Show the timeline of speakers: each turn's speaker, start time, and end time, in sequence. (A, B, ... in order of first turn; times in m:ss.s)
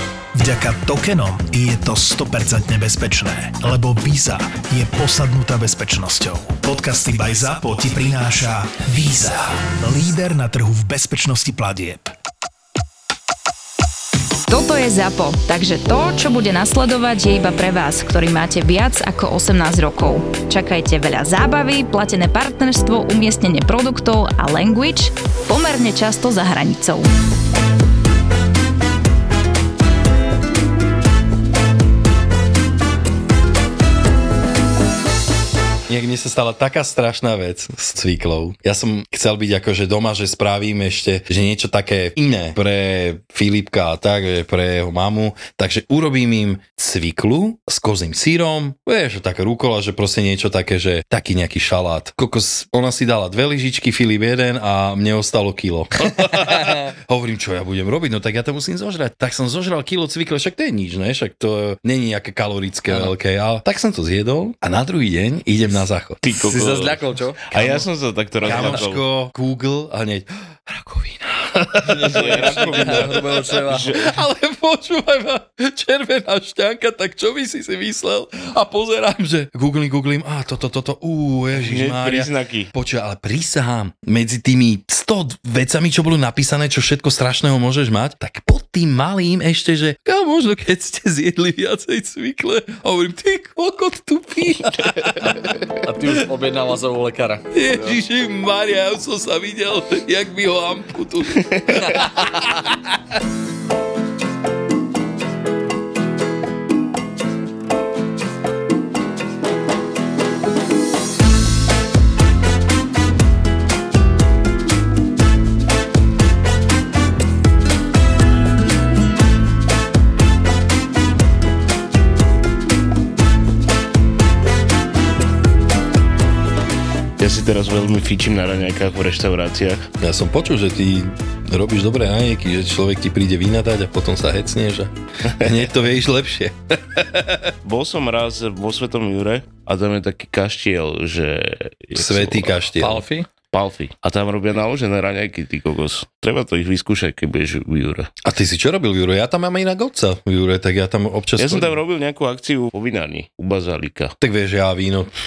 0:00.3-0:12.1 A
0:14.5-0:27.1 B
0:35.9-1:06.2 C
0:56.0-0:56.9 D
1:06.2-1:09.0 E
1:06.4-1:07.8 D
1:08.4-1:35.5 C
1:08.4-1:08.8 D
1:11.9-1:13.9 D
1:12.1-1:14.1 E
1:21.5-1:22.7 E
1:35.2-1:37.6 D
1:37.5-1:42.7 C
1:41.4-1:41.7 E
1:41.9-1:42.6 D
2:07.2-2:09.9 E
2:10.0-2:17.5 C
2:17.6-2:22.6 E
2:21.9-2:23.0 C
2:22.8-2:23.3 D
2:23.5-2:28.1 E
2:28.2-2:31.8 C
2:31.4-2:34.1 E
2:34.2-2:35.1 C